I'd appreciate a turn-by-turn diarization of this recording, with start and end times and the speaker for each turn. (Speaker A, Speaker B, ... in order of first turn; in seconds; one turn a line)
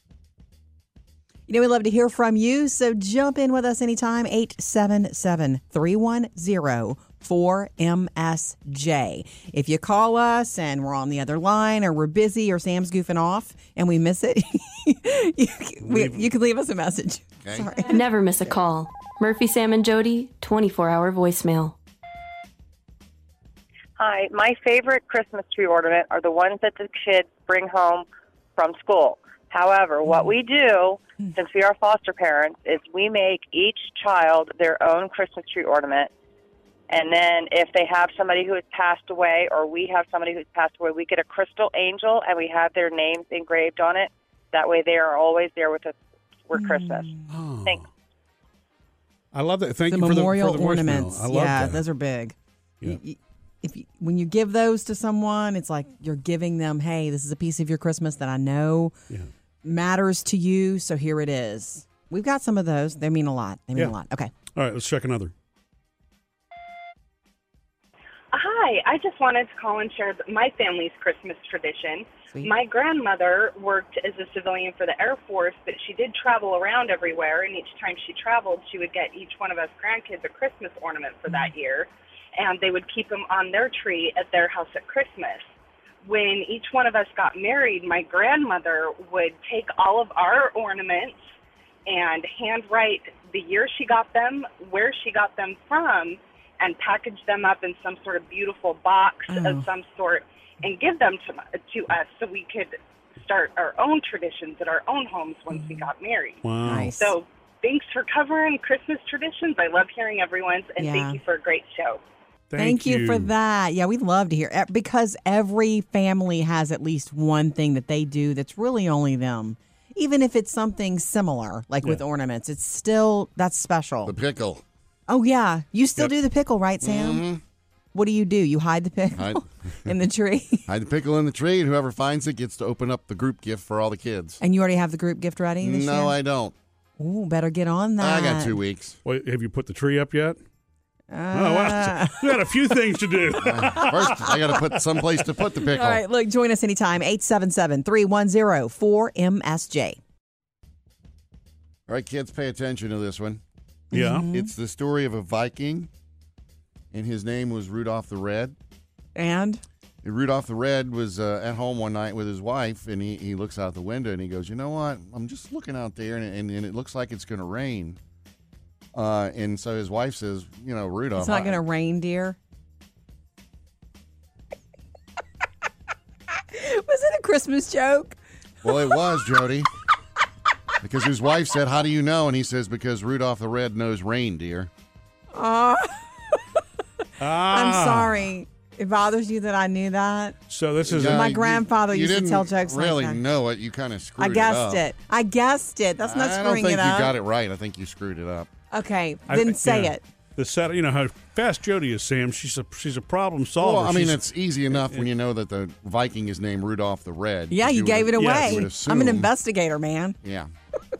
Speaker A: 1.5-17.9
Speaker B: 15.8-16.2
Speaker C: 17.9-21.8
Speaker D: 24.0-28.1
Speaker D: 28.6-36.1
Speaker D: 36.9-45.9
Speaker D: 46.5-47.8
Speaker A: 46.5-47.3
Speaker B: 47.3-47.8
Speaker B: 49.3-51.8
Speaker A: 49.9-58.9
Speaker A: 59.6-64.3
Speaker B: 64.5-65.3
Speaker E: 68.3-85.5
Speaker E: 86.0-91.2
Speaker E: 91.9-106.4
Speaker A: 99.3-99.6
Speaker A: 105.5-105.8
Speaker B: 106.4-106.9
Speaker A: 106.6-107.1
Speaker E: 107.0-112.0
Speaker A: 110.8-111.2
Speaker B: 112.5-113.3
Speaker A: 112.6-124.1
Speaker F: 124.0-124.6
Speaker A: 125.1-127.2
Speaker F: 126.8-127.4
Speaker A: 127.9-130.7
Speaker F: 129.2-129.9
Speaker F: 130.7-134.4
Speaker A: 134.4-136.1
Speaker F: 135.6-136.5
Speaker A: 137.0-138.6
Speaker F: 138.0-139.0
Speaker B: 139.0-140.4
Speaker A: 141.1-142.4
Speaker B: 141.3-144.2
Speaker F: 143.4-146.0
Speaker A: 143.7-144.4
Speaker A: 145.7-150.0
Speaker F: 151.9-153.4
Speaker A: 153.9-154.5
Speaker B: 153.9-154.3
Speaker F: 154.3-155.9
Speaker F: 156.9-158.5
Speaker A: 159.2-159.6
Speaker F: 160.0-168.0
Speaker F: 168.9-171.6
Speaker A: 171.2-172.4
Speaker A: 176.5-178.2
Speaker F: 178.6-179.7
Speaker F: 180.8-184.7
Speaker A: 185.3-186.4
Speaker B: 187.2-188.3
Speaker A: 187.4-190.4
Speaker B: 190.5-191.7
Speaker F: 190.8-194.8
Speaker A: 190.9-193.2
Speaker A: 194.2-197.2
Speaker F: 196.0-198.5
Speaker A: 198.7-200.0
Speaker B: 199.3-205.1
Speaker F: 203.6-209.3
Speaker A: 207.5-210.2
Speaker B: 208.2-208.6
Speaker F: 210.2-210.5